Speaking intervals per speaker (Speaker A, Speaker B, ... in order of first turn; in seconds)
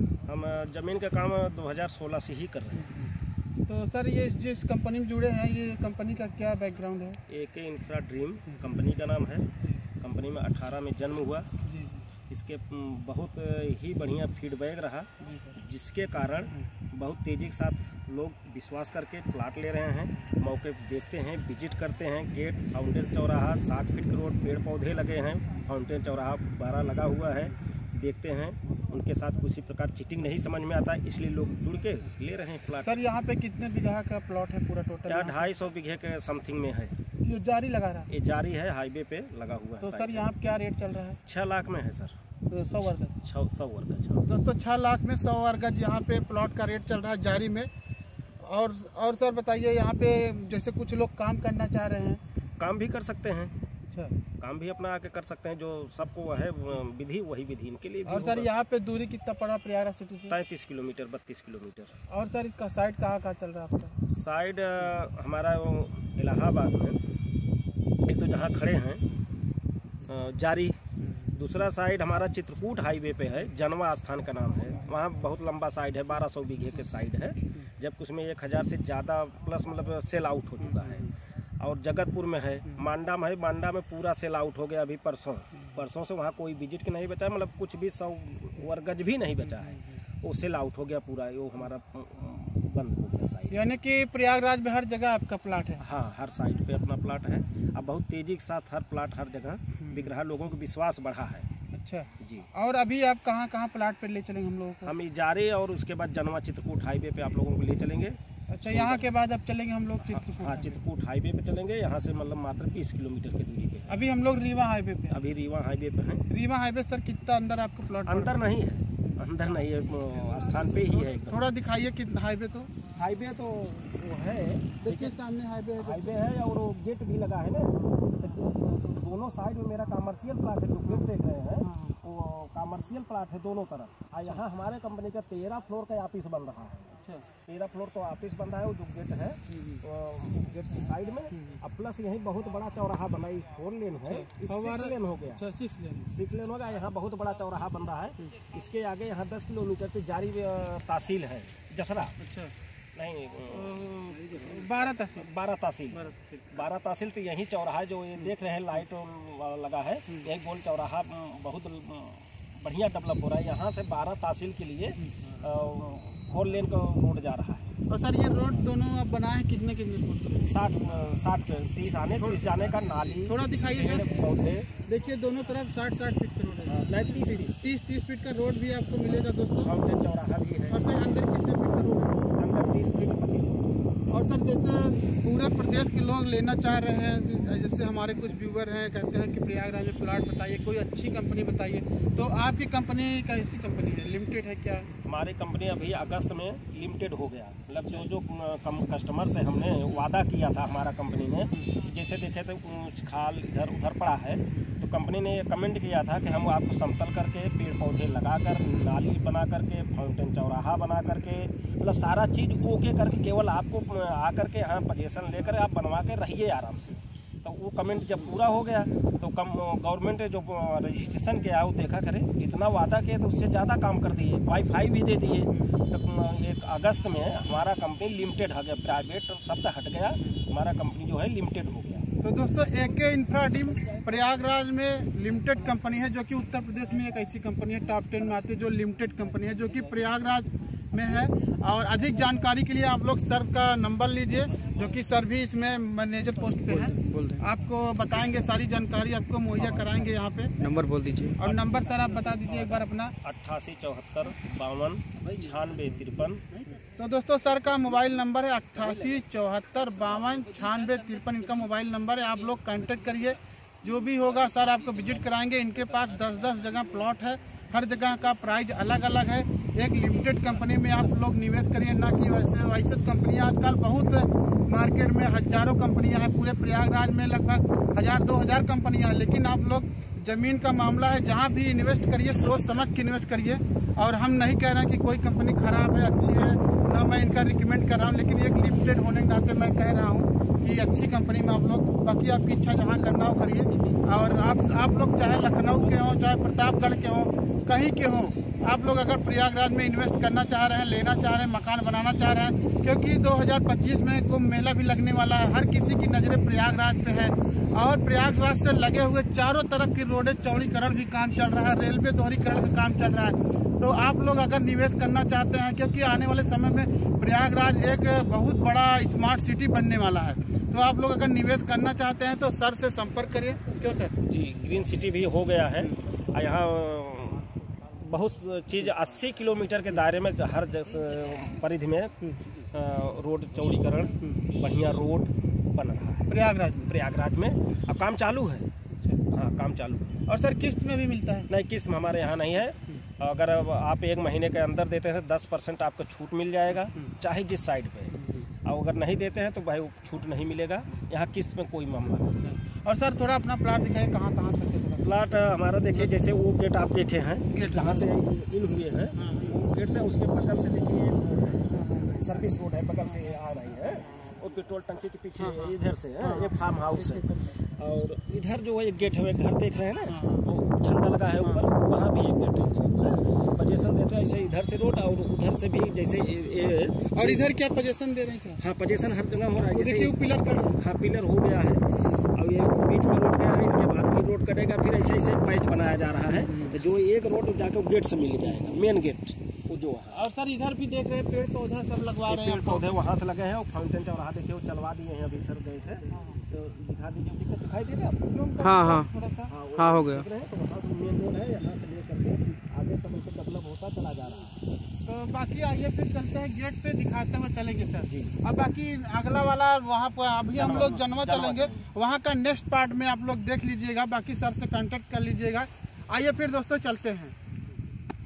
Speaker A: 0.3-2.9, 7.3-9.5, 10.0-11.5, 12.3-33.0, 35.1-37.0, 38.1-40.3, 41.3-42.1, 43.2-44.2, 52.6-53.5, 54.4-58.5, 60.3-62.0, 64.1-67.0, 68.0-69.0, 70.1-70.8, 71.3-93.6, 95.8-101.5, 102.2-102.5, 104.8-109.1, 110.0-114.0, 115.1-116.2, 118.1-121.4, 122.9-125.2, 125.8-145.4, 146.1-152.2, 152.9-167.7, 170.4-174.7, 176.7-177.7, 179.6-180.9, 182.4-183.8, 195.1-232.2, 233.7-234.1, 251.4-256.6, 258.8-259.2, 264.3-265.1, 266.0-266.6, 324.2-336.3, 336.9-338.7, 339.3-340.2, 341.5-352.4, 355.0-377.5, 378.6-390.2, 392.3-398.3, 399.5-404.6, 408.1-408.3, 410.6-411.9
Speaker B: 3.7-7.2, 11.7-12.1, 15.2-15.6, 32.8-35.5, 37.2-38.1, 39.8-41.2, 42.5-43.2, 44.2-47.7, 48.4-52.2, 53.9-54.2, 58.0-60.4, 62.1-64.0, 93.5-95.8, 101.7-104.9, 108.5-110.8, 113.9-115.2, 116.3-118.4, 121.1-122.7, 124.8-126.2, 131.6-132.0, 137.0-137.3, 139.5-139.8, 141.3-141.6, 144.0-146.1, 152.2-152.5, 153.5-155.3, 155.9-156.6, 165.0-165.4, 167.9-170.7, 172.2-174.1, 174.8-179.7, 180.7-182.2, 184.1-194.9, 225.5-225.8, 232.2-250.6, 251.4-253.1, 257.0-324.2, 336.3-336.9, 339.0-339.3, 340.3-341.5, 348.1-348.5, 352.4-355.2, 357.5-358.1, 359.1-359.6, 361.7-362.4, 365.4-367.5, 370.1-370.5, 371.3-371.7, 377.1-378.6, 379.6-380.8, 386.5-386.8, 390.1-393.0, 396.1-396.4, 398.3-399.5, 405.1-417.4
Speaker C: 246.7-247.4, 250.6-251.4, 398.6-399.1, 399.8-400.3